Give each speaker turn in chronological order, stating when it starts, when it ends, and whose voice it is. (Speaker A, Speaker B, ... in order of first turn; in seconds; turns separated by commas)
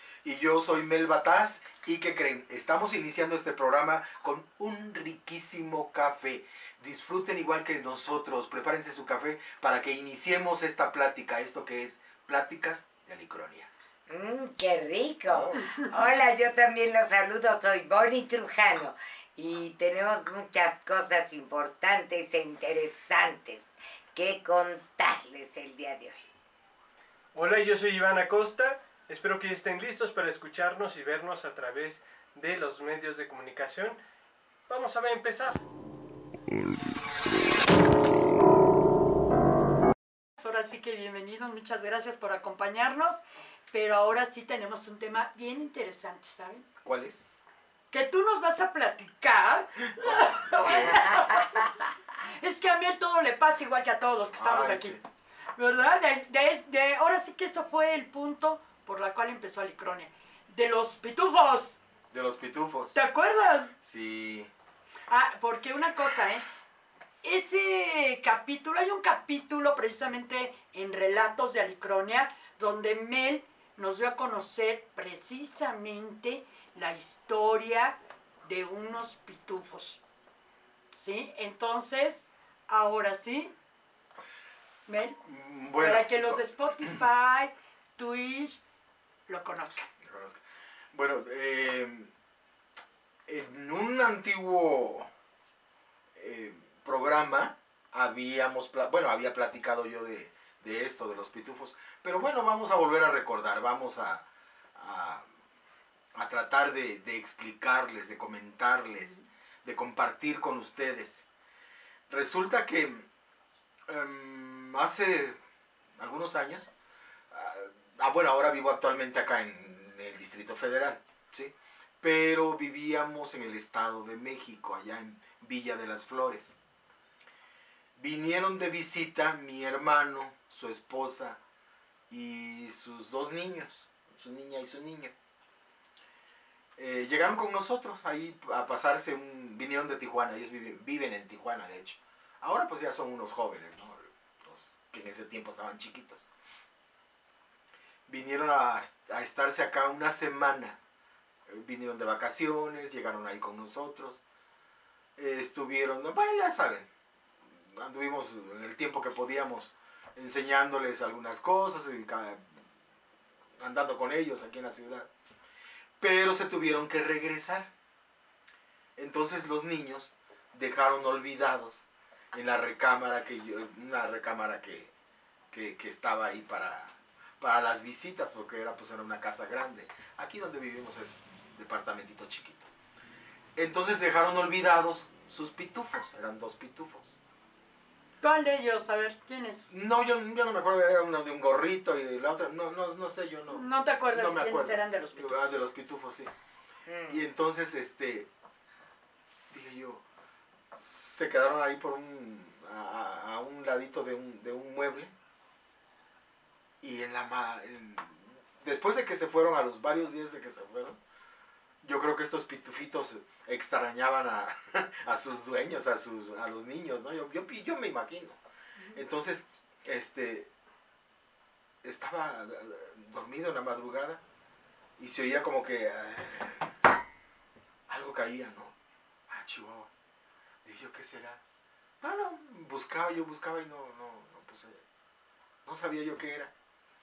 Speaker A: 0.2-13.7, Speaker B: 14.1-26.3, Speaker A: 15.3-15.6, Speaker C: 27.3-34.0, Speaker C: 34.7-35.6, Speaker D: 40.4-46.6, Speaker A: 46.8-47.4, Speaker D: 47.9-51.7, Speaker A: 49.8-51.3, Speaker B: 50.7-51.6, Speaker D: 52.2-55.0, Speaker A: 54.3-55.0, Speaker D: 55.6-61.8, Speaker A: 62.1-63.0, Speaker D: 62.9-63.7, Speaker A: 63.8-64.5, Speaker D: 65.1-66.4, Speaker D: 67.2-80.0, Speaker D: 80.9-83.5, Speaker D: 84.9-85.2, Speaker A: 85.2-86.9, Speaker D: 85.8-88.6, Speaker D: 89.3-89.9, Speaker A: 90.0-90.4, Speaker A: 90.9-92.1, Speaker A: 93.3-95.1, Speaker A: 96.1-104.2, Speaker A: 104.7-105.2, Speaker A: 106.1-111.2, Speaker A: 112.1-113.1, Speaker A: 113.9-115.3, Speaker A: 116.0-116.7, Speaker A: 117.3-126.6, Speaker A: 128.0-131.4, Speaker A: 132.1-135.1, Speaker A: 136.8-146.3, Speaker A: 148.1-150.8, Speaker A: 151.5-154.2, Speaker A: 155.2-156.9, Speaker A: 157.6-162.5, Speaker A: 163.6-165.1, Speaker A: 166.0-167.7, Speaker A: 169.0-174.9, Speaker A: 175.5-182.7, Speaker A: 183.6-187.2, Speaker D: 188.2-189.7, Speaker A: 189.7-196.3, Speaker D: 193.5-195.5, Speaker B: 196.8-197.3, Speaker A: 197.1-198.3, Speaker A: 199.5-200.0, Speaker A: 200.8-205.1, Speaker A: 206.8-211.0, Speaker A: 211.8-218.4, Speaker D: 218.8-219.0, Speaker A: 218.9-220.5, Speaker A: 221.8-224.2, Speaker A: 225.0-226.7, Speaker A: 227.9-228.7, Speaker A: 229.3-229.9, Speaker A: 230.6-231.4, Speaker A: 232.0-234.8, Speaker A: 235.6-236.5